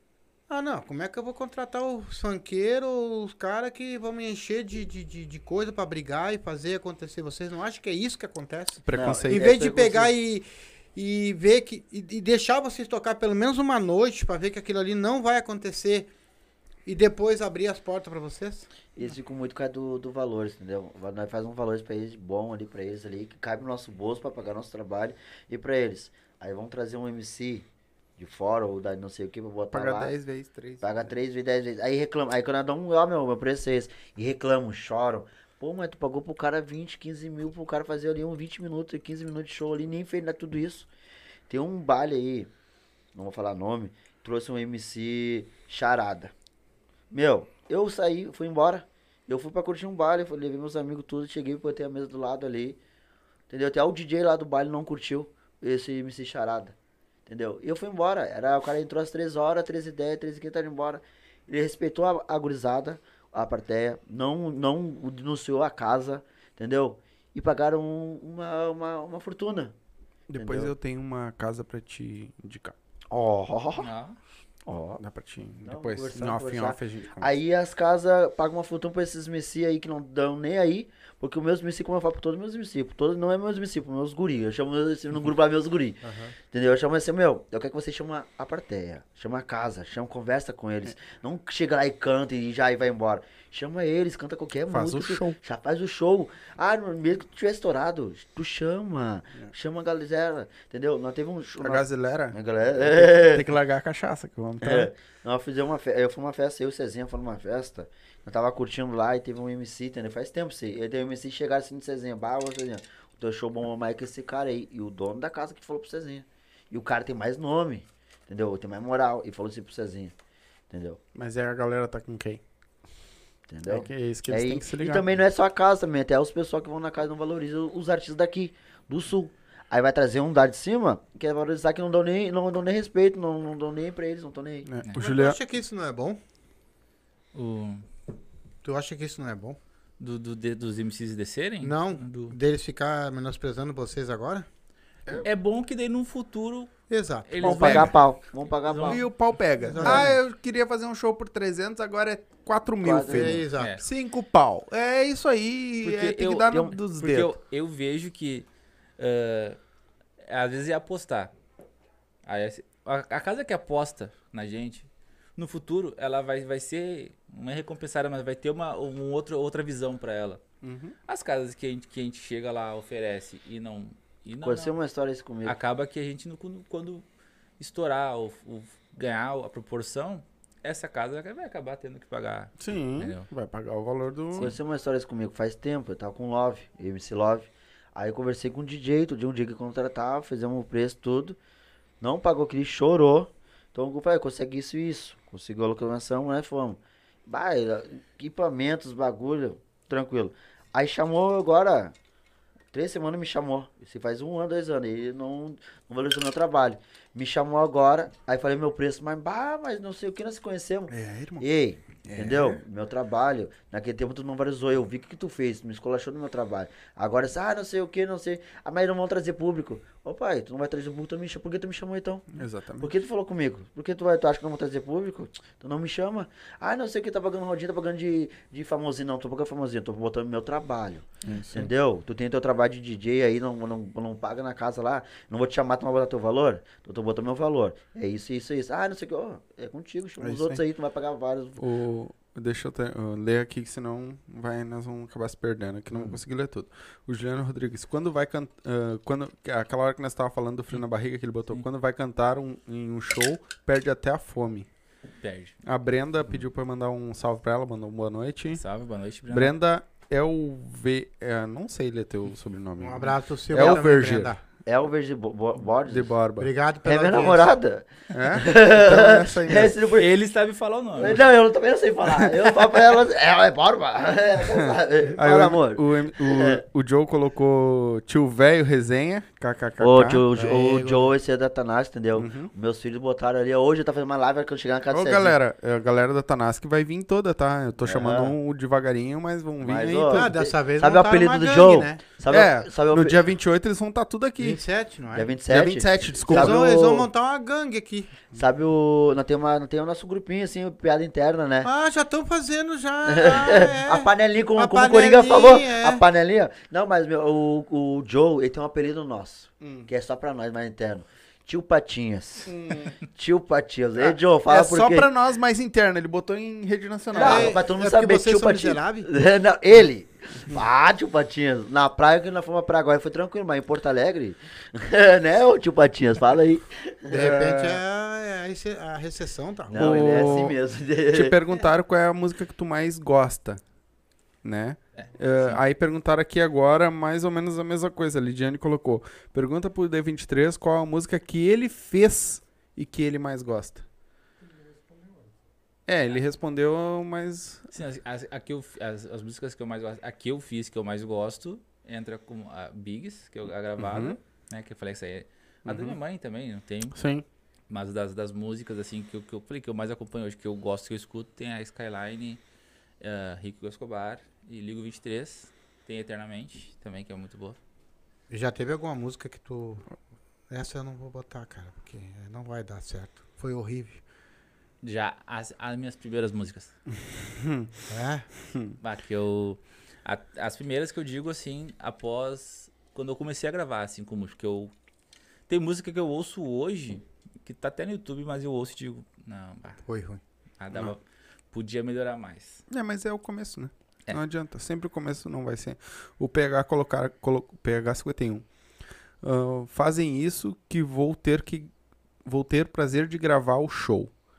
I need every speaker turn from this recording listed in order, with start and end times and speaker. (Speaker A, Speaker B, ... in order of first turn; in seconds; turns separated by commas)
Speaker A: 0.5-16.1, Speaker B: 8.8-9.5, Speaker C: 8.9-10.1, Speaker A: 16.9-18.7, Speaker C: 19.0-27.7, Speaker C: 28.2-30.2, Speaker B: 29.7-31.1, Speaker C: 30.8-40.9, Speaker C: 41.5-42.5, Speaker C: 43.1-46.3, Speaker C: 47.1-52.8, Speaker C: 53.5-56.8, Speaker C: 57.3-69.7, Speaker B: 70.3-72.8, Speaker C: 70.3-70.7, Speaker C: 73.1-73.9, Speaker D: 73.8-74.2, Speaker C: 74.7-75.0, Speaker B: 75.0-77.3, Speaker C: 75.6-103.5, Speaker A: 86.0-86.3, Speaker B: 94.7-95.4, Speaker B: 101.5-104.9, Speaker C: 104.6-120.1, Speaker C: 120.7-121.0, Speaker B: 121.2-122.4, Speaker C: 123.5-134.7, Speaker B: 123.7-125.1, Speaker B: 134.7-135.4, Speaker A: 135.0-136.2, Speaker D: 137.3-137.9, Speaker A: 138.6-139.6, Speaker D: 140.0-142.4, Speaker A: 141.6-144.5, Speaker D: 145.1-146.7, Speaker A: 146.9-147.4, Speaker D: 147.2-149.0, Speaker B: 147.4-148.0, Speaker C: 147.4-149.1, Speaker B: 148.8-157.3, Speaker A: 149.6-150.2, Speaker C: 149.8-150.1, Speaker C: 152.8-153.4, Speaker A: 153.1-153.8, Speaker D: 153.6-153.9, Speaker D: 155.8-158.5, Speaker D: 159.0-159.6, Speaker D: 160.2-161.3, Speaker D: 162.3-170.4, Speaker B: 170.6-170.9, Speaker D: 171.1-174.8, Speaker C: 174.4-175.6, Speaker D: 175.4-177.1, Speaker D: 177.6-183.3, Speaker B: 182.6-184.5, Speaker C: 184.4-191.4, Speaker C: 192.0-201.9, Speaker C: 202.7-241.6, Speaker B: 210.9-211.5, Speaker B: 212.1-212.6, Speaker B: 222.3-222.9, Speaker B: 231.3-231.7, Speaker B: 240.2-240.6, Speaker B: 241.6-254.7, Speaker D: 255.2-255.6, Speaker B: 255.6-258.6, Speaker D: 258.5-259.6, Speaker B: 259.3-264.4, Speaker A: 262.8-264.4, Speaker C: 263.5-263.8, Speaker C: 264.7-266.1, Speaker B: 265.9-266.5, Speaker A: 266.4-267.5, Speaker C: 266.8-270.1, Speaker B: 268.1-269.8, Speaker D: 269.9-271.1, Speaker C: 271.0-276.6, Speaker B: 274.6-280.2, Speaker C: 279.8-285.4, Speaker A: 280.3-281.1, Speaker B: 282.1-282.5, Speaker B: 284.9-290.3, Speaker C: 287.8-288.4, Speaker C: 289.6-293.2, Speaker A: 290.1-292.0, Speaker B: 292.3-294.6, Speaker A: 294.4-295.3, Speaker C: 295.1-297.1, Speaker B: 295.5-297.0, Speaker A: 296.3-298.1, Speaker C: 298.3-301.7, Speaker A: 301.6-306.0, Speaker C: 303.1-312.6, Speaker B: 309.6-309.9, Speaker B: 312.5-313.0, Speaker C: 313.1-315.1, Speaker B: 314.5-317.6, Speaker C: 317.1-327.8, Speaker A: 317.2-319.1, Speaker A: 327.1-330.4, Speaker C: 329.7-331.4, Speaker B: 329.7-330.6, Speaker B: 331.1-333.6, Speaker B: 334.4-343.9, Speaker D: 335.0-335.6, Speaker B: 345.9-347.7, Speaker D: 347.7-357.0, Speaker B: 353.8-354.2, Speaker B: 355.7-356.0, Speaker B: 356.9-357.3, Speaker D: 357.7-362.4, Speaker D: 363.0-367.6, Speaker A: 368.3-369.9, Speaker A: 370.5-374.0, Speaker D: 374.8-376.8, Speaker B: 377.1-377.7, Speaker A: 377.9-378.3, Speaker B: 378.4-378.8, Speaker D: 378.8-384.7, Speaker D: 385.5-389.8, Speaker A: 389.9-390.2, Speaker D: 390.6-392.6, Speaker B: 392.7-398.5, Speaker B: 399.2-401.7, Speaker B: 402.2-404.1